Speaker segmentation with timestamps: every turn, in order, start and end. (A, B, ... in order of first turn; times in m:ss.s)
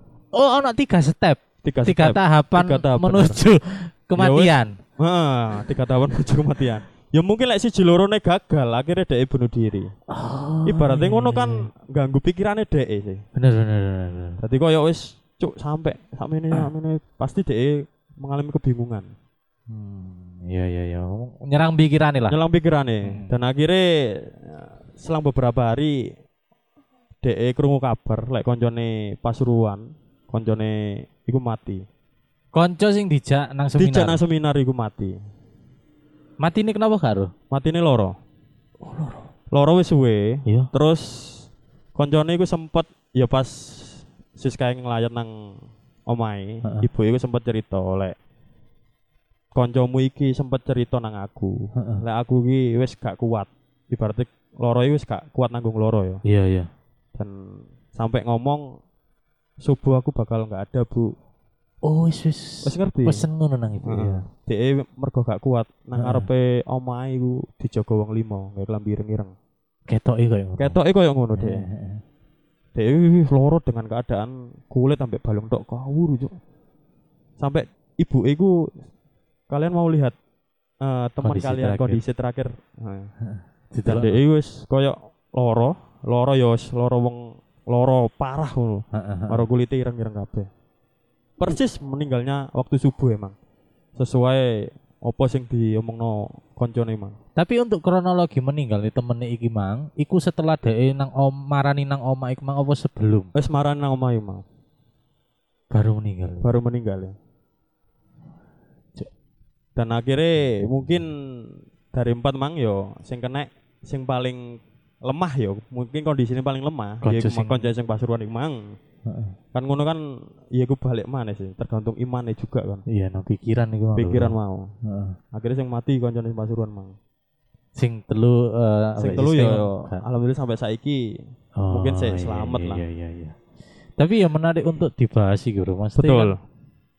0:00.3-0:04.7 A
0:01.6-0:03.4 B
0:04.2-0:09.9 B
0:10.1-0:11.6 A
0:10.6-0:13.2 B
0:13.4-0:14.4 A
0:14.4-0:19.1 B
0:19.7-0:22.4 A
0:22.3-0:26.0 B
0:23.0-0:23.3 A
0:27.2-0:31.8 B
0:32.5-0:34.2 A
0:33.8-0:35.2 B
0:36.4-0:37.3 A
0:37.5-0:38.1 B
0:38.8-0:39.3 A
0:39.5-0:45.3 B
0:46.1-0:48.2 B
0:49.5-0:56.2 B
0:51.8-0:52.0 A
0:56.2-0:56.7 A
0:57.9-0:58.6 B
0:59.6-1:01.1 B
1:01.8-1:04.2 A
1:02.6-1:03.2 B
1:03.9-1:09.3 B
1:06.0-1:06.3 A
1:09.9-1:10.8 A
1:10.6-1:11.6 B
1:11.4-1:12.0 A
1:12.7-1:16.4 B
1:17.4-1:18.7 B
1:19.5-1:20.2 B
1:20.8-1:23.1 B
1:21.2-1:22.0 A
1:23.2-1:24.2 A
1:23.9-1:30.5 B
1:28.9-1:29.4 A
1:31.4-1:33.4 B
1:34.0-1:37.2 B
1:37.4-1:43.3 A
1:43.4-1:44.4 B
1:45.7-1:46.5 A
1:46.4-1:47.1 B
1:49.8-1:58.7 B
1:57.0-1:57.7 A
1:59.0-1:59.4 A
1:59.5-2:00.0 B
2:00.5-2:02.8 B
2:02.9-2:05.2 A
2:04.0-2:04.7 B
2:05.3-2:06.9 B
2:07.8-2:10.0 A
2:09.0-2:11.1 B
2:11.6-2:13.4 A
2:11.7-2:12.8 B
2:14.0-2:16.3 A
2:16.0-2:16.4 B